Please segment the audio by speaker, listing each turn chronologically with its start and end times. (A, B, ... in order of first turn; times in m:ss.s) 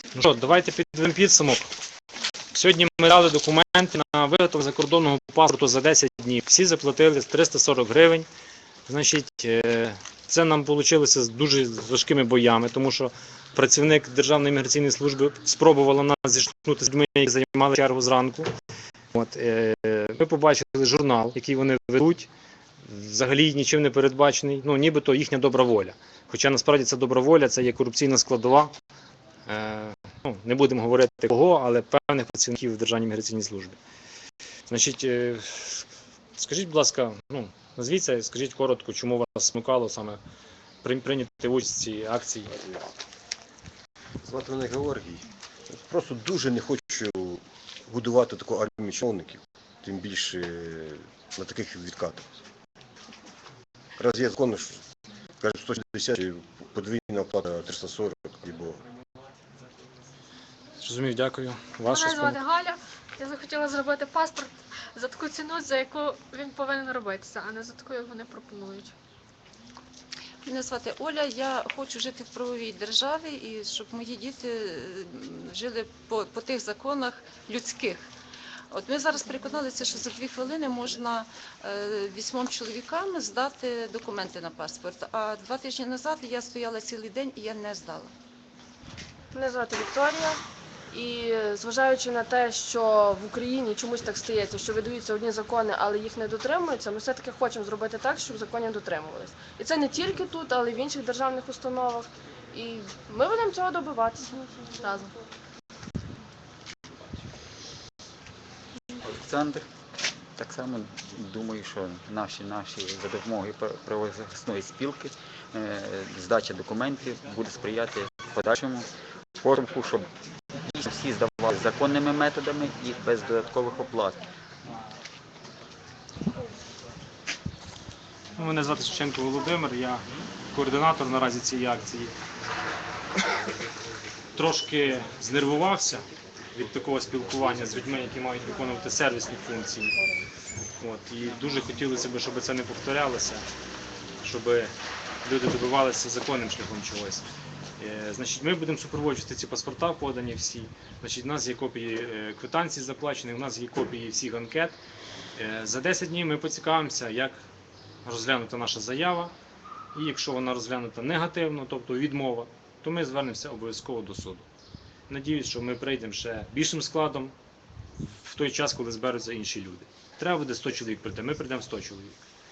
0:00.1-0:01.6 A
0:02.5-0:08.3 A
0:08.9-0:18.5 A
0:19.1-0:22.3 A
0:22.8-0:28.7 A
0:29.5-0:33.8 A
0:34.7-0:35.8 A
0:36.4-0:40.2 A
0:40.8-0:42.5 A
0:42.6-0:42.9 B
0:44.2-0:52.2 B
0:54.0-0:54.8 B
0:55.4-0:58.8 B
1:00.8-1:02.4 A
1:01.9-1:08.9 C
1:10.4-1:18.1 D
1:18.7-1:28.1 D
1:29.3-1:45.0 E
1:49.0-1:49.7 F
1:50.4-1:58.9 F
1:59.4-2:04.2 F
2:08.4-2:12.1 A
2:14.3-2:19.9 A
2:20.8-2:23.4 A
2:24.2-2:24.7 A
2:25.2-2:27.2 A
2:27.8-2:34.8 A
2:35.4-2:37.4 A
2:38.0-2:39.3 A
2:39.9-2:44.5 A
2:45.1-2:47.3 A
2:48.2-2:52.2 A